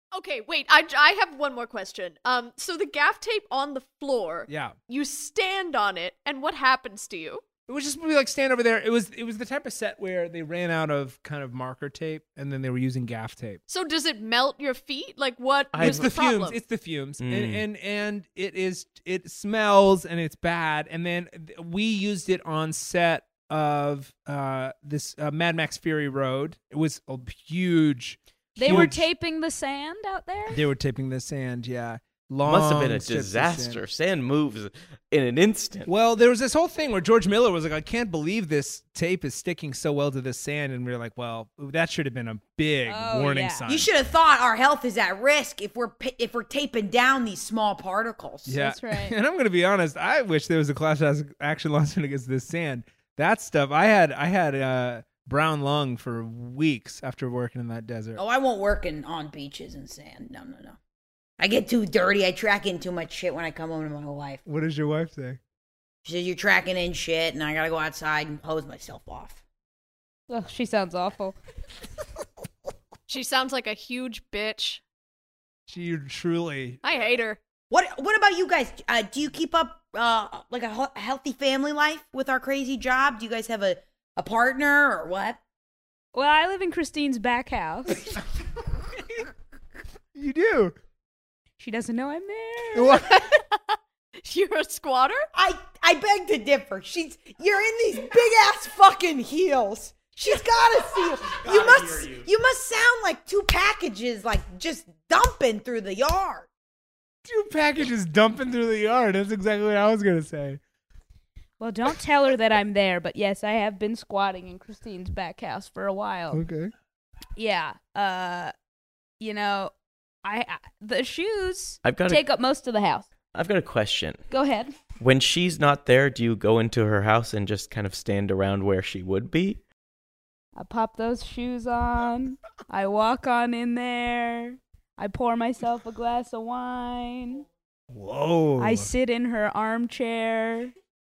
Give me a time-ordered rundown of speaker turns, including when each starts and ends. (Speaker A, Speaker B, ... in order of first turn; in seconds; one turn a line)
Speaker A: 0.1-7.4
Speaker B: 4.5-4.8
Speaker B: 7.7-13.6
Speaker A: 13.7-16.6
Speaker C: 15.7-16.1
Speaker B: 15.8-29.1
Speaker C: 17.2-17.6
Speaker D: 28.6-30.6
Speaker B: 30.5-33.8
Speaker C: 32.5-35.9
Speaker B: 35.9-43.9
Speaker D: 42.9-43.6
Speaker E: 43.7-48.6
Speaker B: 48.5-58.2
Speaker D: 48.6-49.2
Speaker E: 58.2-60.8
Speaker E: 61.4-64.4
Speaker B: 64.5-65.4
Speaker E: 66.0-69.4
Speaker D: 70.3-71.4
Speaker A: 73.1-74.8
Speaker B: 75.7-76.8
Speaker A: 76.8-77.4
Speaker E: 77.7-85.4
Speaker D: 86.1-88.1
Speaker B: 90.2-90.8
Speaker D: 91.6-93.0
Speaker B: 92.7-93.4
Speaker A: 93.2-95.3
Speaker E: 95.3-106.5
Speaker C: 101.2-102.3
Speaker B: 107.2-110.6
Speaker D: 111.6-116.5
Speaker B: 116.3-116.7
Speaker D: 117.4-118.5
Speaker D: 119.2-119.7
Speaker D: 120.2-123.1
Speaker C: 121.8-122.2
Speaker C: 123.3-124.2
Speaker D: 124.3-124.7
Speaker C: 125.0-129.6
Speaker D: 130.6-137.4
Speaker B: 137.9-138.9
Speaker D: 138.6-140.7